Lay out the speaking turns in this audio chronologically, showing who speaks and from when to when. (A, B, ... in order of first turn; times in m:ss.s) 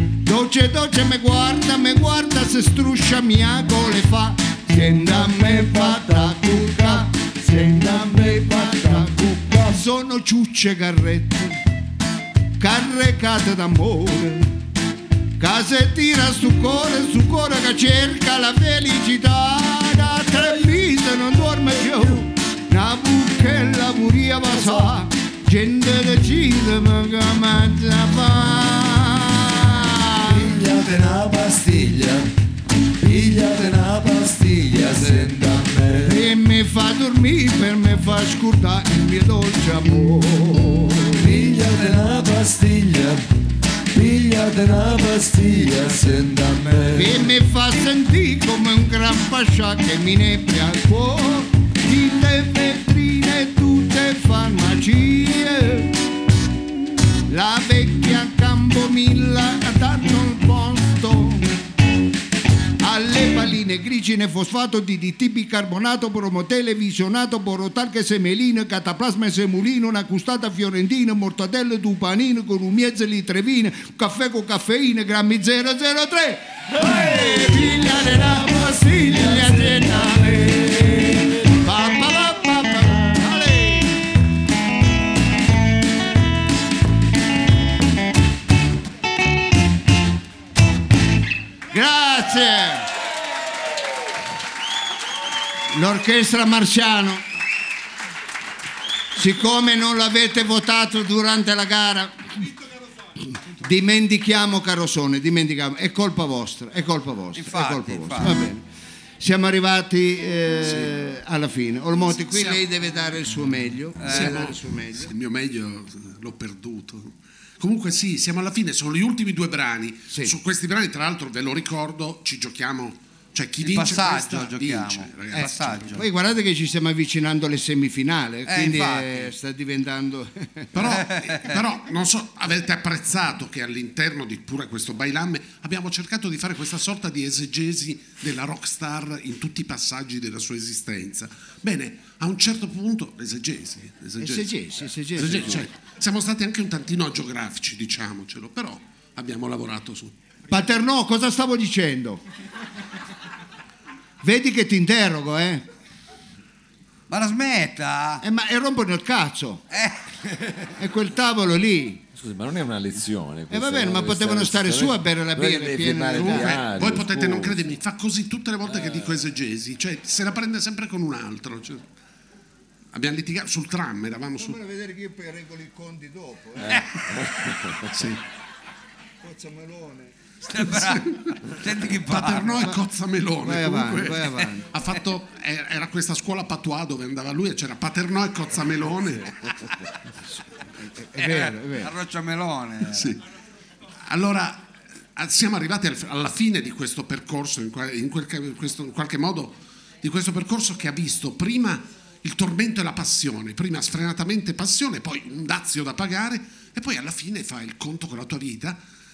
0:00.2-0:11.6 A
0:05.2-0:09.8 B
0:12.6-0:14.5 A
0:15.4-0:30.6 A
0:30.2-0:32.3 B
0:33.0-0:36.2 B
0:36.0-0:41.3 A
0:41.2-0:43.2 B
0:43.9-0:47.3 B
0:47.0-0:56.0 A
0:57.3-1:01.5 A
1:02.8-1:24.1 A
1:16.8-1:21.3 B
1:31.7-1:32.9 A
1:35.7-1:37.2 A
1:39.1-1:42.5 A
1:43.2-1:48.6 A
1:47.4-1:48.4 C
1:49.2-1:55.1 A
1:50.6-1:50.9 D
1:52.2-1:52.6 D
1:54.0-1:54.4 C
1:54.0-2:06.0 D
2:00.1-2:00.4 A
2:03.6-2:06.0 C
2:05.3-2:10.9 A
2:08.5-2:09.3 C
2:10.7-2:24.5 D
2:10.8-2:11.6 C
2:24.2-2:25.7 A
2:25.2-2:30.1 D
2:30.5-2:32.2 A
2:34.2-2:35.7 A
2:37.1-2:38.2 C
2:38.2-2:39.6 A
2:39.7-2:40.0 C
2:40.6-2:42.0 A
2:42.1-2:47.6 E
2:43.5-2:46.6 A
2:46.1-2:51.8 D
2:52.9-2:54.6 D
2:54.4-2:57.5 A
2:56.6-2:58.0 E
2:57.8-2:58.2 D
2:59.2-3:00.1 A
3:00.5-3:02.7 C
3:00.5-3:09.8 D
3:03.4-3:04.7 A
3:10.8-3:11.9 A
3:11.2-3:13.2 C
3:12.9-3:13.2 D
3:14.1-3:28.8 D